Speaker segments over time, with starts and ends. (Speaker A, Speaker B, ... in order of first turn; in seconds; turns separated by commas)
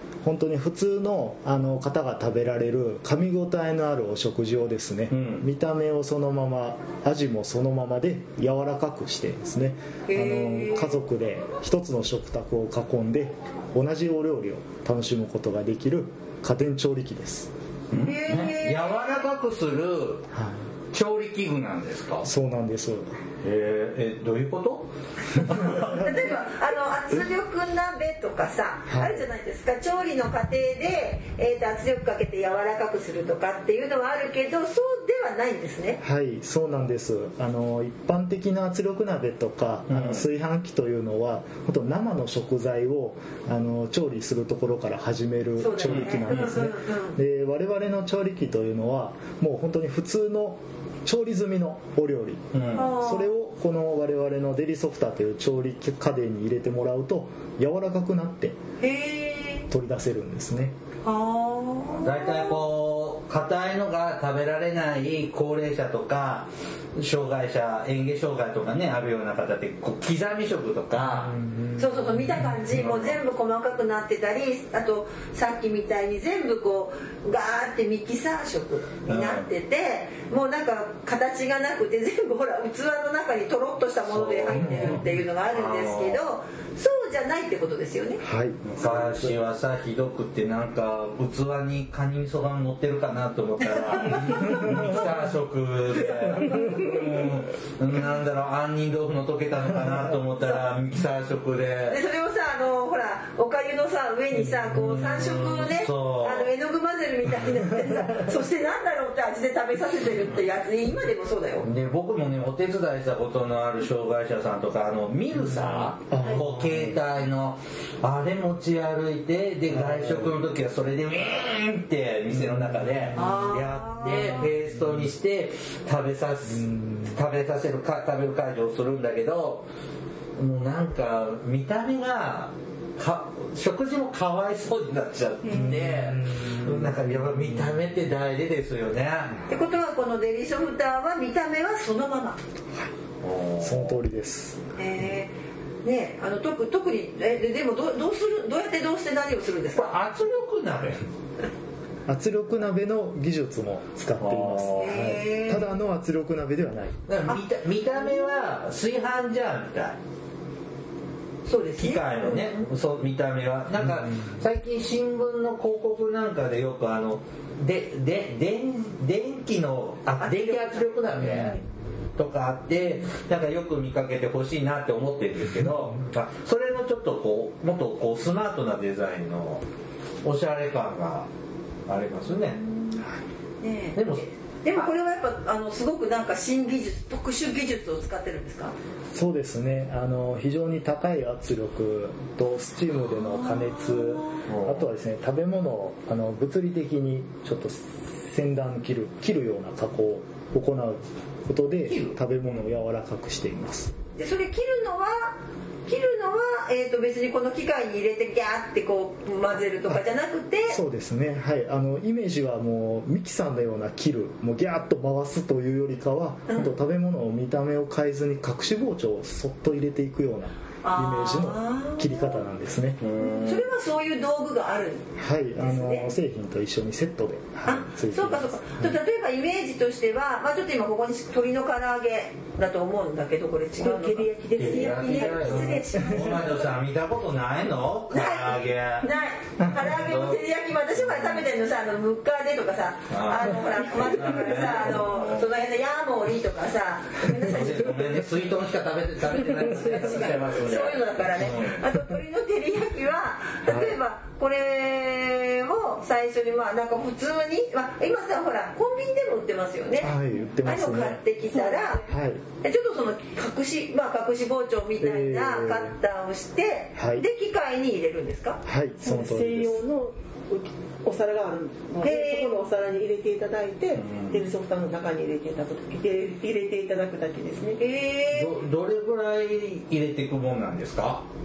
Speaker A: 0.2-17.5, Speaker B: 5.1-5.4, Speaker C: 10.1-11.0, Speaker B: 17.9-20.3, Speaker C: 18.0-19.1, Speaker A: 20.3-20.6, Speaker B: 20.9-22.3, Speaker A: 22.2-23.1, Speaker B: 23.4-26.1, Speaker C: 25.5-36.0, Speaker A: 28.9-29.2, Speaker A: 36.0-58.6, Speaker B: 39.9-40.2, Speaker C: 45.6-47.2, Speaker B: 45.9-46.6, Speaker B: 52.5-52.9, Speaker C: 52.7-53.3, Speaker C: 58.8-59.7, Speaker A: 59.7-60.7, Speaker C: 61.0-62.6, Speaker B: 62.0-71.3, Speaker A: 71.0-72.6, Speaker C: 71.8-88.2, Speaker B: 72.7-73.2, Speaker B: 79.1-79.5, Speaker B: 84.1-86.2, Speaker A: 88.2-89.4, Speaker B: 88.6-102.0, Speaker C: 93.9-94.9, Speaker A: 94.4-94.8, Speaker C: 101.9-111.7, Speaker B: 104.7-106.5, Speaker B: 111.6-129.7, Speaker A: 116.1-116.9, Speaker A: 119.7-120.3, Speaker A: 122.7-123.4, Speaker C: 123.1-124.5, Speaker A: 126.6-127.1, Speaker B: 130.3-139.4, Speaker A: 135.5-137.8, Speaker C: 139.5-142.4, Speaker B: 143.2-143.9, Speaker A: 143.6-144.6, Speaker C: 144.8-145.3, Speaker C: 145.8-149.9, Speaker B: 149.7-151.0, Speaker A: 152.1-156.9, Speaker B: 154.2-155.2, Speaker C: 154.8-155.7, Speaker B: 157.1-160.0, Speaker C: 161.4-162.7, Speaker B: 161.8-171.6, Speaker C: 170.2-171.6, Speaker B: 172.2-179.6, Speaker B: 180.2-181.3, Speaker B: 181.9-182.6, Speaker C: 182.6-183.0, Speaker C: 183.6-188.7, Speaker B: 183.9-184.2, Speaker A: 189.1-203.9, Speaker C: 193.3-194.4, Speaker B: 194.5-194.8, Speaker B: 201.9-202.2, Speaker C: 204.2-210.8, Speaker A: 210.7-223.0, Speaker C: 220.8-222.4, Speaker B: 223.0-223.7, Speaker C: 223.2-226.1, Speaker A: 225.2-228.9, Speaker C: 227.7-236.6, Speaker D: 233.8-236.2, Speaker B: 234.6-239.1, Speaker C: 238.1-248.1, Speaker B: 239.8-240.4, Speaker B: 243.1-245.4, Speaker B: 247.3-251.8, Speaker C: 249.5-262.0, Speaker A: 253.7-253.9, Speaker A: 260.0-261.2, Speaker D: 261.5-262.1, Speaker A: 262.1-262.4, Speaker C: 262.6-268.6, Speaker A: 265.0-265.9, Speaker A: 266.9-267.2, Speaker A: 268.6-269.8, Speaker D: 269.0-277.8, Speaker C: 272.0-272.6, Speaker B: 273.9-274.4, Speaker C: 277.8-278.5, Speaker B: 278.3-281.2